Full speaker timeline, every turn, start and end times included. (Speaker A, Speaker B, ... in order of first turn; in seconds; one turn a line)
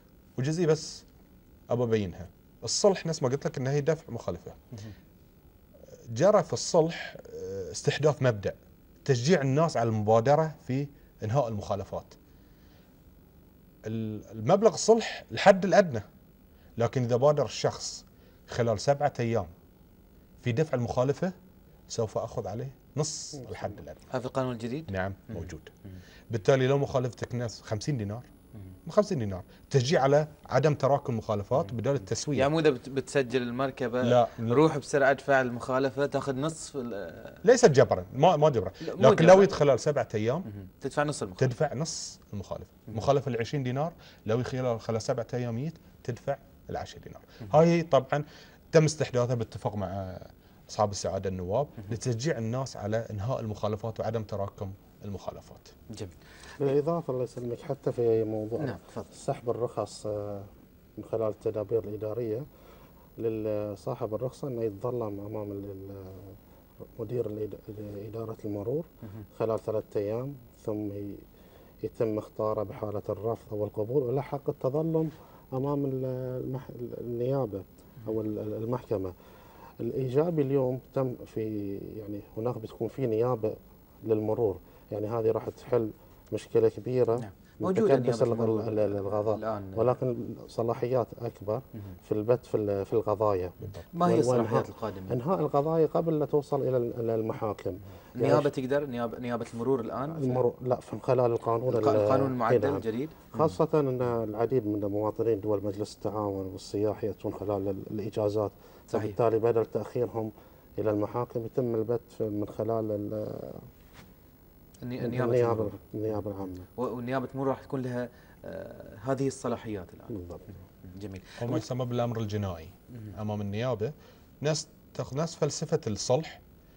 Speaker A: 0.4-1.0
Speaker A: 1.7-4.6
Speaker A: 6.1-12.2
Speaker A: 13.8-16.1
Speaker A: 16.8-19.5
Speaker A: 20.4-21.3
Speaker A: 21.9-24.0
Speaker B: 24.1-26.0
Speaker A: 24.9-25.7
Speaker A: 26.3-28.3
Speaker A: 28.9-32.5
Speaker B: 32.3-37.4
Speaker A: 34.0-34.6
Speaker A: 37.4-40.5
Speaker B: 38.8-39.5
Speaker B: 40.5-41.5
Speaker A: 41.4-55.7
Speaker C: 56.6-62.4
Speaker B: 58.6-59.1
Speaker C: 63.2-66.4
Speaker C: 67.0-71.2
Speaker C: 71.8-79.1
Speaker C: 79.8-98.5
Speaker B: 87.2-89.9
Speaker B: 93.9-95.2
Speaker B: 98.1-100.4
Speaker C: 100.1-113.7
Speaker B: 101.7-103.6
Speaker B: 108.9-109.2
Speaker B: 114.8-116.2
Speaker C: 115.0-116.7
Speaker B: 116.8-121.6
Speaker C: 120.1-120.5
Speaker A: 121.4-126.4